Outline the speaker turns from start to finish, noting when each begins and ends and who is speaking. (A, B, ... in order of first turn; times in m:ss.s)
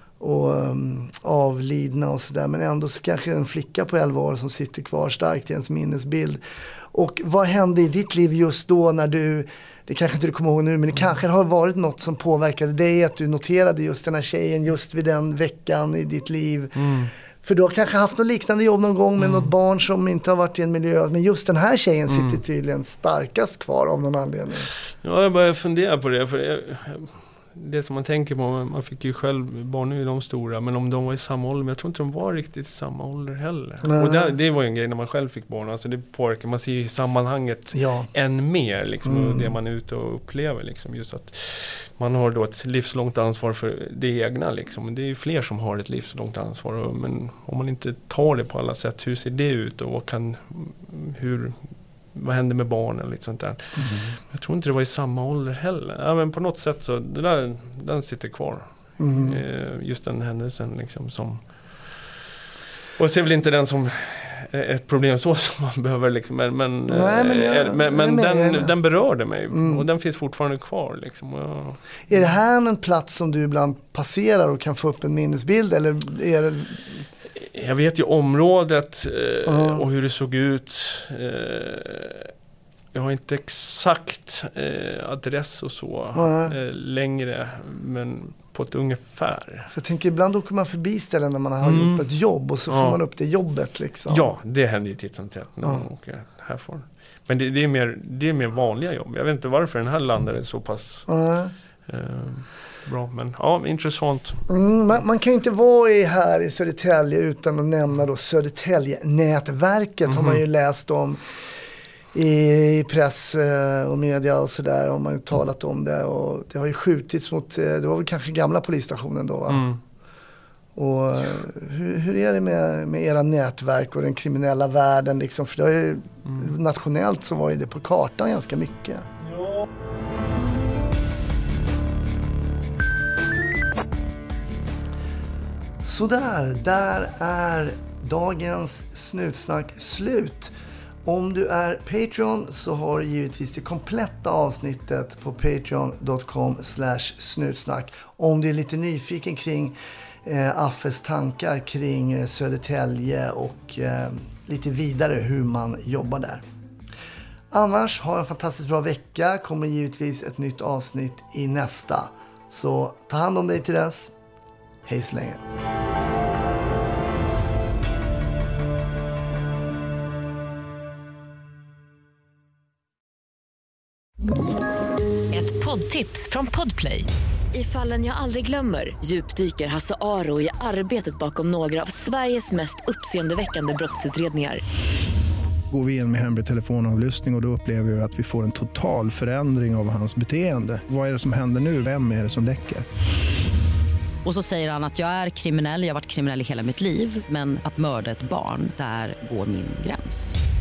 0:00.2-0:16.8 A
0:16.8-0:17.1 B
0:17.4-0:24.7 A
0:19.2-0:19.5 B
0:22.1-0:22.4 B
0:25.0-1:02.0 B
0:33.8-0:34.3 A
0:37.7-0:38.1 A
0:39.0-0:39.5 A
0:53.8-0:54.1 A
0:59.0-0:59.4 A
1:03.0-1:12.3 B
1:06.9-1:08.7 A
1:09.5-1:09.8 A
1:12.1-1:17.0 A
1:17.4-1:22.3 B
1:19.5-1:19.8 A
1:22.9-1:29.7 B
1:26.2-1:26.6 A
1:29.7-1:34.4 A
1:31.6-1:32.1 B
1:32.7-1:33.0 B
1:34.1-1:41.1 B
1:41.1-1:41.5 A
1:41.9-1:44.4 B
1:44.5-1:51.2 A
1:50.1-1:50.4 B
1:52.1-1:59.7 A
1:59.5-1:59.8 B
2:00.8-2:09.1 A
2:06.2-2:06.5 B
2:15.8-2:20.5 A
2:21.0-2:36.4 A
2:37.5-2:44.1 A
2:44.8-2:45.4 A
2:55.3-3:04.6 C
3:05.7-3:12.8 D
3:14.2-3:20.4 E